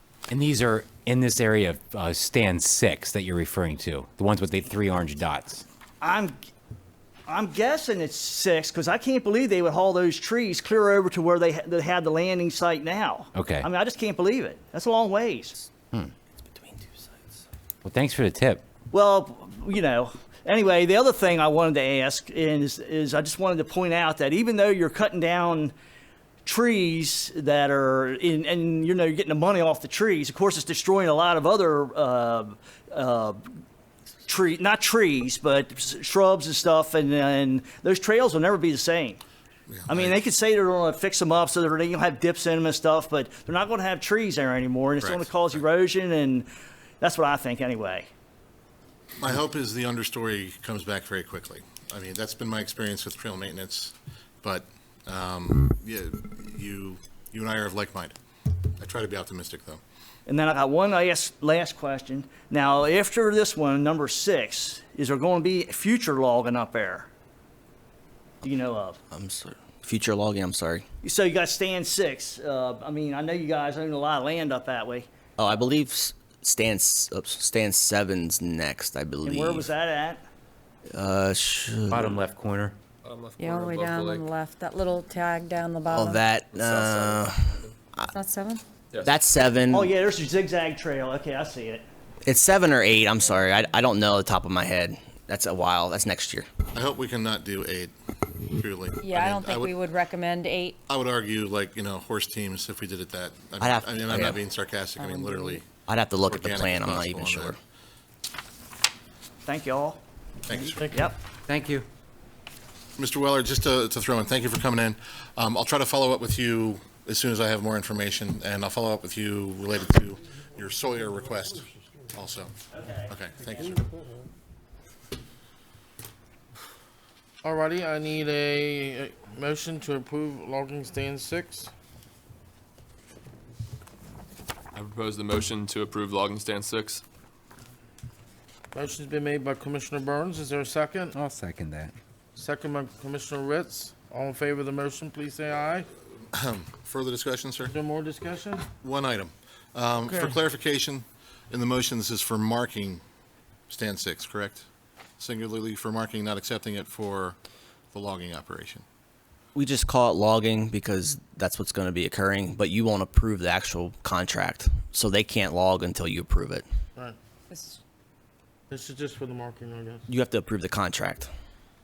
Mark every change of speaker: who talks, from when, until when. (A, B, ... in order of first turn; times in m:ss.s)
0:00.3-0:05.6 A
0:06.0-0:06.4 B
0:07.3-0:15.7 B
0:13.3-0:13.7 A
0:17.8-0:18.6 A
0:18.9-0:25.7 B
0:26.4-0:33.4 B
0:34.2-0:39.2 B
0:39.7-0:40.2 C
0:39.9-0:46.5 B
0:45.0-0:45.6 C
0:47.0-0:48.1 B
0:49.2-0:58.1 C
0:58.6-0:59.8 C
1:00.3-1:07.1 B
1:08.4-1:09.0 B
1:09.1-1:10.8 D
1:11.0-1:15.1 B
1:15.4-1:19.7 D
1:19.2-1:20.2 B
1:20.9-1:22.2 D
1:21.9-1:22.8 A
1:23.0-1:24.3 E
1:23.4-1:26.2 F
1:25.9-1:28.1 D
1:26.5-1:27.7 E
1:28.1-1:28.6 F
1:29.0-1:29.9 D
1:29.7-1:31.8 B
1:32.2-1:36.5 D
1:36.7-1:39.7 C
1:39.0-1:40.8 F
1:40.9-1:47.6 C
1:43.6-1:44.4 D
1:45.0-1:45.6 F
1:45.9-1:47.6 D
1:49.4-1:50.0 B
1:50.5-1:50.8 C
1:50.6-1:51.1 G
1:50.9-1:51.2 B
1:51.5-1:51.8 A
1:53.0-2:02.5 C
2:02.7-2:03.1 B
2:03.0-2:03.8 C
2:07.4-2:11.7 G
2:14.7-2:17.0 E
2:18.7-2:21.2 G
2:21.1-2:21.9 A
2:22.4-2:25.9 G
2:26.3-2:27.7 C
2:27.6-2:28.7 G
2:28.8-2:33.0 C
2:30.1-2:30.4 G
2:33.7-2:34.6 C
2:35.2-2:37.4 C
2:37.9-2:38.8 C
2:39.5-2:46.6 D
2:47.5-2:47.8 F
2:48.7-2:50.0 G
2:50.1-2:51.3 D